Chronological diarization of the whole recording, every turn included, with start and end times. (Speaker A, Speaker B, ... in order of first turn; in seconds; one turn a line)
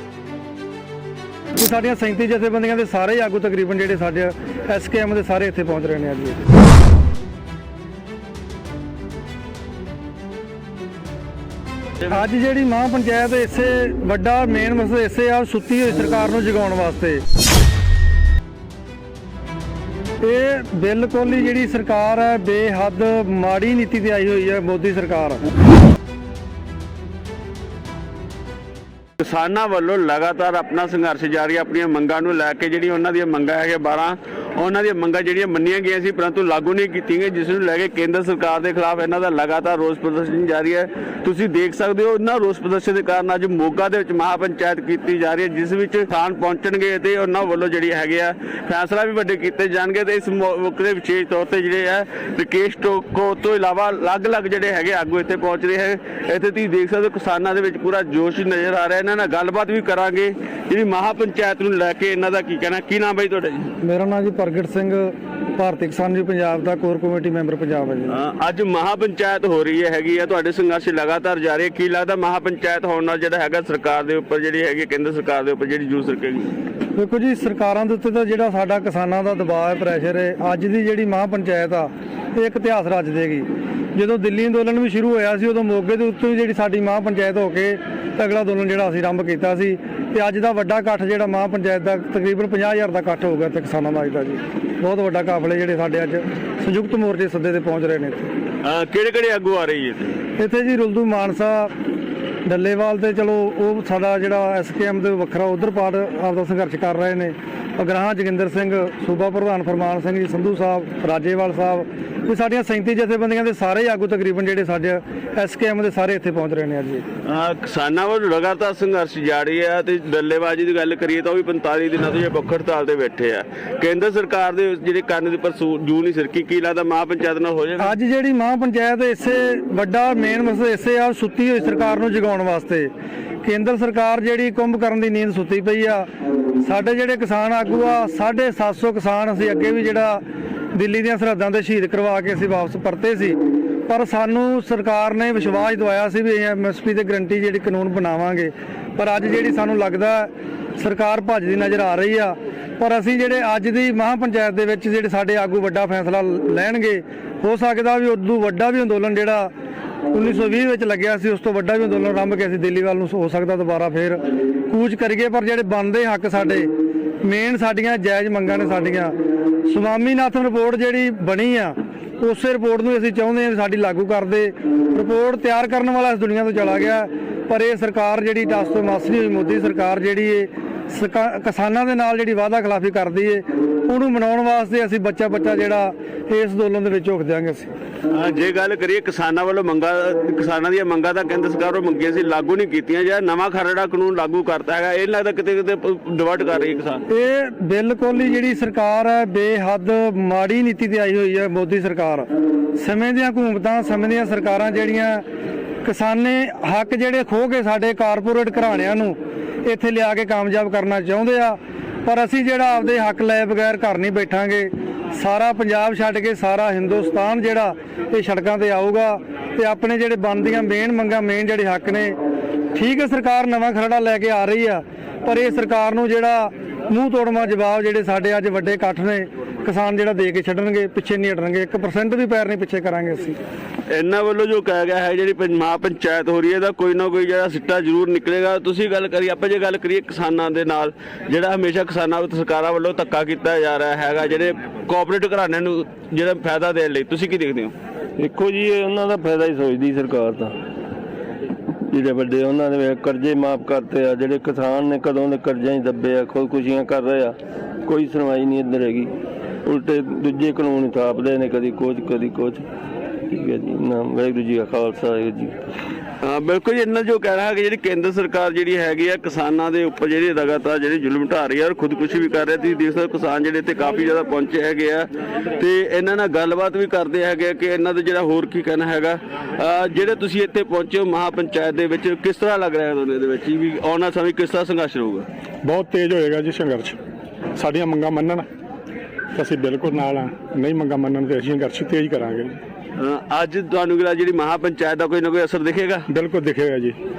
Speaker A: 1.6-6.5
Speaker A: 12.1-17.2
Speaker A: 20.2-25.4
Speaker B: 29.2-63.7
Speaker A: 63.8-68.2
Speaker B: 68.1-76.5
Speaker A: 77.0-98.3
Speaker B: 98.6-100.2
Speaker A: 100.4-101.7
Speaker A: 102.5-117.0
Speaker B: 117.2-127.9
Speaker A: 127.8-132.9
Speaker A: 133.4-136.1
Speaker A: 136.6-159.5
Speaker A: 160.1-187.7
Speaker B: 188.1-197.0
Speaker A: 197.1-205.2
Speaker A: 205.8-222.2
Speaker A: 222.7-233.4
Speaker B: 233.9-247.7
Speaker C: 248.2-250.5
Speaker C: 251.9-257.3
Speaker C: 257.9-259.1
Speaker C: 259.6-262.6
Speaker C: 263.3-265.5
Speaker B: 266.2-285.2
Speaker D: 285.6-287.0
Speaker D: 287.6-288.5
Speaker D: 289.4-292.6
Speaker B: 293.0-296.1
Speaker D: 296.1-296.9